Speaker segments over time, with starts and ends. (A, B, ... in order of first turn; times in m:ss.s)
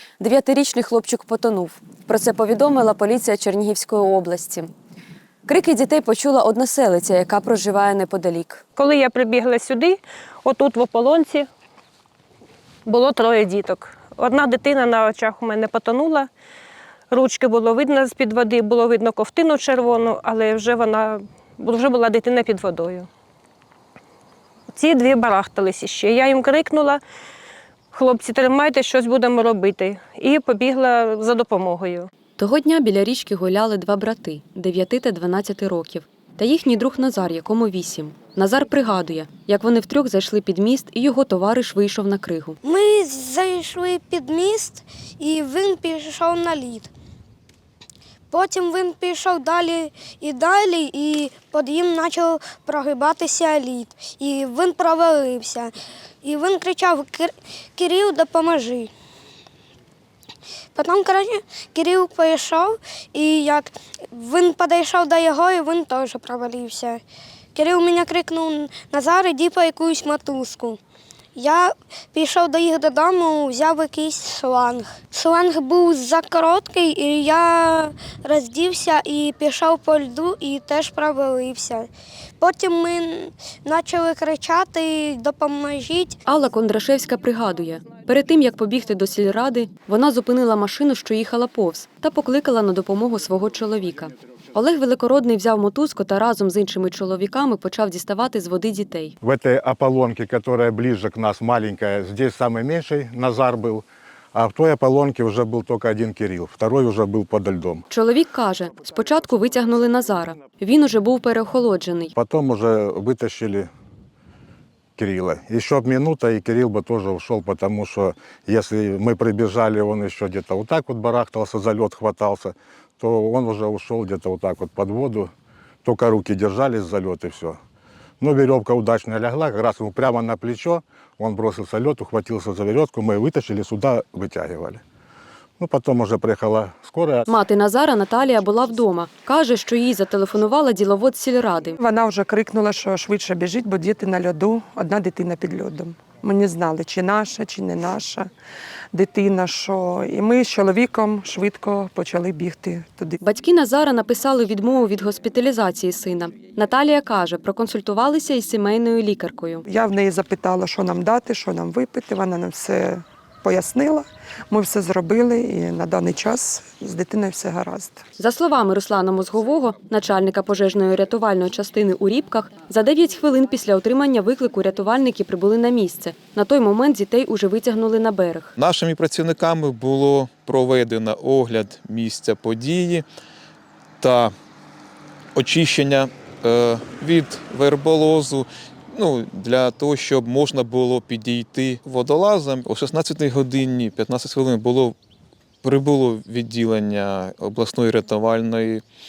0:00.2-0:04.7 A
0:05.4-0:08.6 A
0:08.8-0:11.5 B
0:12.8-0:16.3 B
0:17.1-0:23.1 B
0:24.7-0:27.0 B
0:27.9-0:32.1 B
0:32.4-0:42.6 A
0:42.6-0:46.9 C
0:48.3-0:58.9 C
1:00.7-1:07.0 C
1:07.5-1:10.8 C
1:11.3-1:26.2 C
1:26.2-1:39.1 A
1:39.2-1:47.8 D
1:47.9-1:52.1 A
1:52.2-1:53.7 D
1:55.0-2:05.3 D
2:05.8-2:07.6 D
2:08.2-2:14.8 D
2:15.6-2:17.3 D
2:17.3-2:21.8 A
2:21.8-2:28.3 E
2:28.9-2:33.2 E
2:33.2-2:39.6 A
2:39.7-2:48.0 E
2:48.2-2:58.5 A
2:58.6-3:03.0 F
3:04.0-3:04.3 F
3:05.3-3:15.0 F
3:15.6-3:18.8 F